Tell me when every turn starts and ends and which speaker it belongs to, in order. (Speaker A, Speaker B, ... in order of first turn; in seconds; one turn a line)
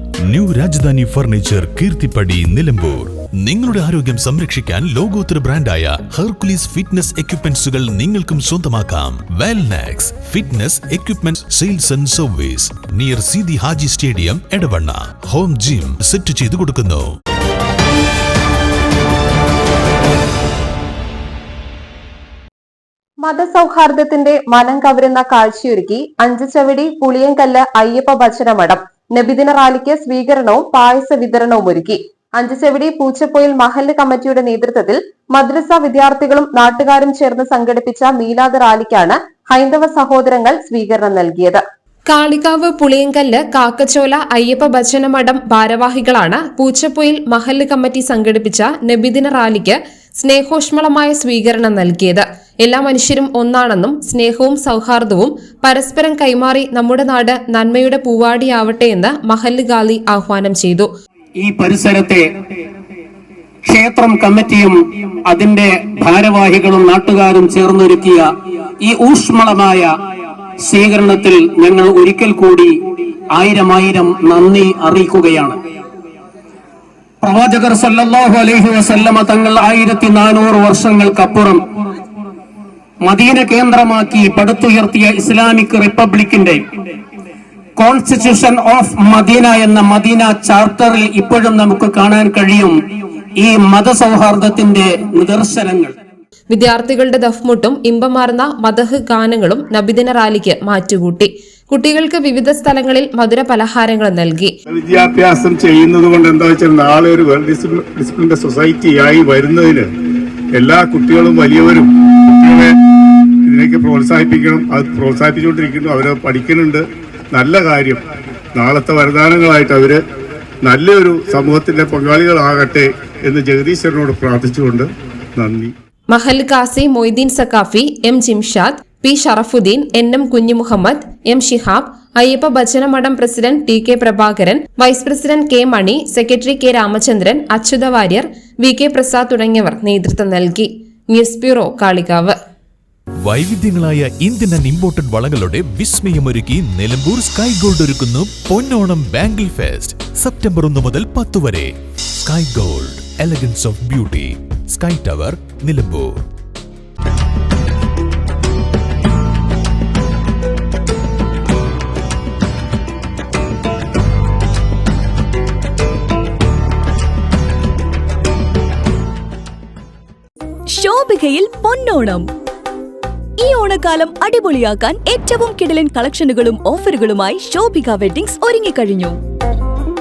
Speaker A: 0.2-17.1
Speaker B: 23.2-41.6
Speaker C: 42.1-60.9
Speaker D: 61.4-62.2
Speaker D: 63.6-68.3
Speaker D: 68.8-69.9
Speaker D: 70.6-75.6
Speaker D: 77.2-81.7
Speaker D: 83.0-86.6
Speaker D: 87.8-92.8
Speaker D: 93.4-95.9
Speaker C: 96.5-104.5
Speaker E: 104.7-109.9
Speaker E: 110.6-111.9
Speaker E: 112.4-112.8
Speaker E: 113.5-116.8
Speaker E: 117.3-118.0
Speaker E: 118.5-120.0
Speaker E: 120.6-125.7
Speaker C: 126.1-142.4
Speaker A: 143.2-156.3
Speaker F: 170.7-172.3
Speaker F: 173.4-179.2